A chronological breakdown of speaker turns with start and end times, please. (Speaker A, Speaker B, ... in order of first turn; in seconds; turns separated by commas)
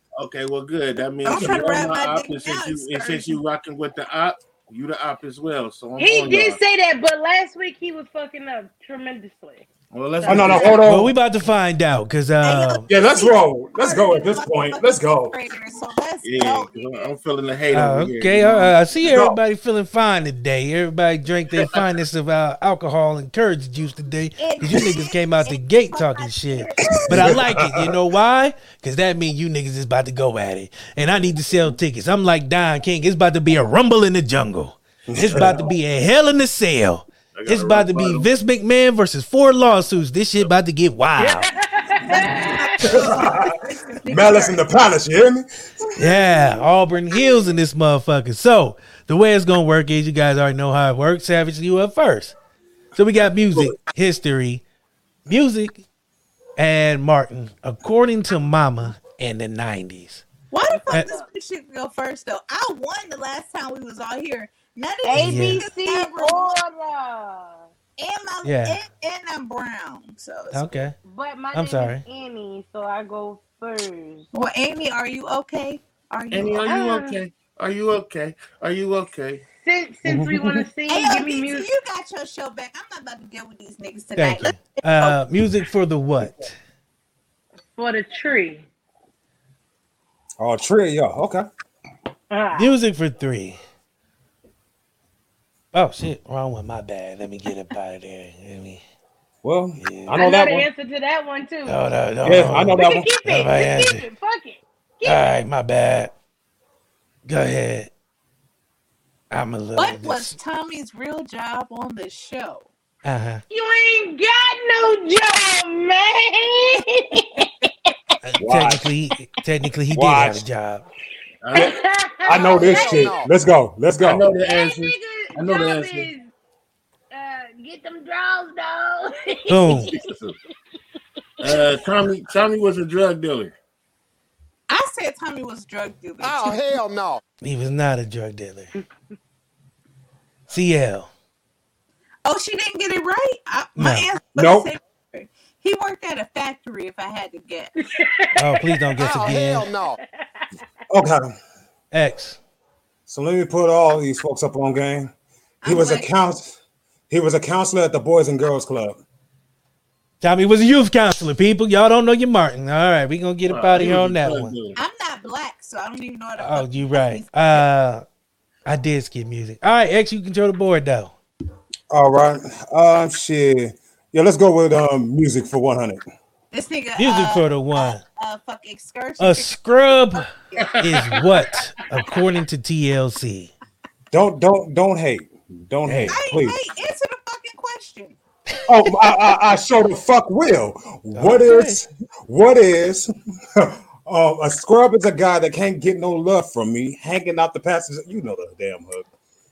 Speaker A: 0.2-6.6, Speaker B: 1.2-3.4, Speaker C: 1.3-1.6, Speaker D: 6.0-10.8, Speaker A: 9.9-10.8, Speaker C: 10.3-11.1, Speaker B: 10.6-10.8, Speaker E: 10.8-12.8, Speaker B: 12.4-17.1, Speaker C: 12.9-15.3, Speaker A: 16.2-18.8, Speaker E: 17.7-41.5, Speaker C: 19.1-19.4, Speaker A: 21.6-21.8, Speaker B: 24.4-27.4, Speaker C: 26.9-27.8, Speaker C: 35.1-35.7, Speaker A: 37.3-38.3, Speaker D: 41.2-44.7, Speaker B: 42.1-42.7, Speaker C: 42.8-43.5, Speaker C: 44.1-46.5, Speaker E: 46.0-52.4, Speaker E: 53.0-54.6, Speaker E: 55.3-55.9, Speaker E: 56.6-60.2, Speaker B: 60.5-66.5, Speaker D: 60.7-61.2, Speaker D: 65.0-67.7, Speaker E: 65.2-65.6, Speaker B: 68.0-70.8, Speaker E: 68.4-68.8, Speaker E: 70.5-71.0, Speaker D: 71.0-74.3, Speaker E: 71.5-72.0, Speaker B: 74.3-76.6, Speaker A: 76.3-79.4, Speaker D: 76.7-77.2, Speaker D: 79.6-81.7, Speaker C: 80.1-80.6, Speaker B: 80.9-85.2, Speaker E: 84.2-86.5, Speaker D: 87.8-88.7, Speaker C: 90.4-91.5, Speaker D: 92.3-92.7, Speaker E: 92.6-93.6, Speaker E: 95.7-98.8, Speaker C: 99.4-100.7, Speaker E: 99.8-100.2, Speaker D: 100.2-101.8, Speaker E: 101.7-104.1, Speaker C: 102.2-103.1, Speaker D: 102.8-105.4, Speaker E: 105.0-106.1, Speaker E: 107.3-107.9, Speaker E: 109.3-110.3, Speaker B: 109.8-112.7, Speaker E: 113.0-113.4, Speaker D: 113.5-117.7, Speaker E: 118.2-120.9, Speaker C: 118.4-118.9, Speaker C: 119.9-120.4, Speaker A: 121.4-121.7, Speaker D: 121.5-123.1, Speaker C: 122.3-124.3, Speaker F: 122.7-123.3, Speaker A: 124.0-126.1, Speaker D: 124.5-126.3, Speaker D: 127.1-130.1, Speaker E: 129.5-129.9, Speaker A: 129.9-130.3, Speaker A: 131.4-133.6, Speaker D: 131.4-131.7, Speaker B: 134.7-136.8, Speaker F: 136.2-137.2, Speaker E: 137.4-138.7, Speaker E: 140.5-141.1, Speaker B: 142.2-147.7, Speaker E: 143.8-144.1, Speaker C: 144.3-144.7, Speaker D: 147.8-150.5, Speaker E: 148.4-149.7, Speaker F: 149.0-150.0, Speaker C: 150.9-151.3, Speaker E: 151.9-152.4, Speaker C: 153.1-155.1, Speaker B: 155.6-156.1, Speaker C: 155.6-156.6, Speaker C: 157.1-159.0, Speaker E: 160.2-164.5, Speaker A: 163.5-164.8, Speaker B: 164.8-167.3, Speaker E: 166.4-168.0, Speaker E: 168.7-171.2, Speaker C: 171.9-176.0, Speaker B: 176.5-179.6, Speaker E: 177.0-178.0, Speaker E: 179.2-183.5, Speaker B: 180.1-181.2, Speaker A: 180.6-181.2, Speaker C: 184.1-186.6, Speaker E: 185.8-186.2, Speaker B: 186.1-188.2, Speaker C: 188.7-199.1, Speaker E: 191.1-191.8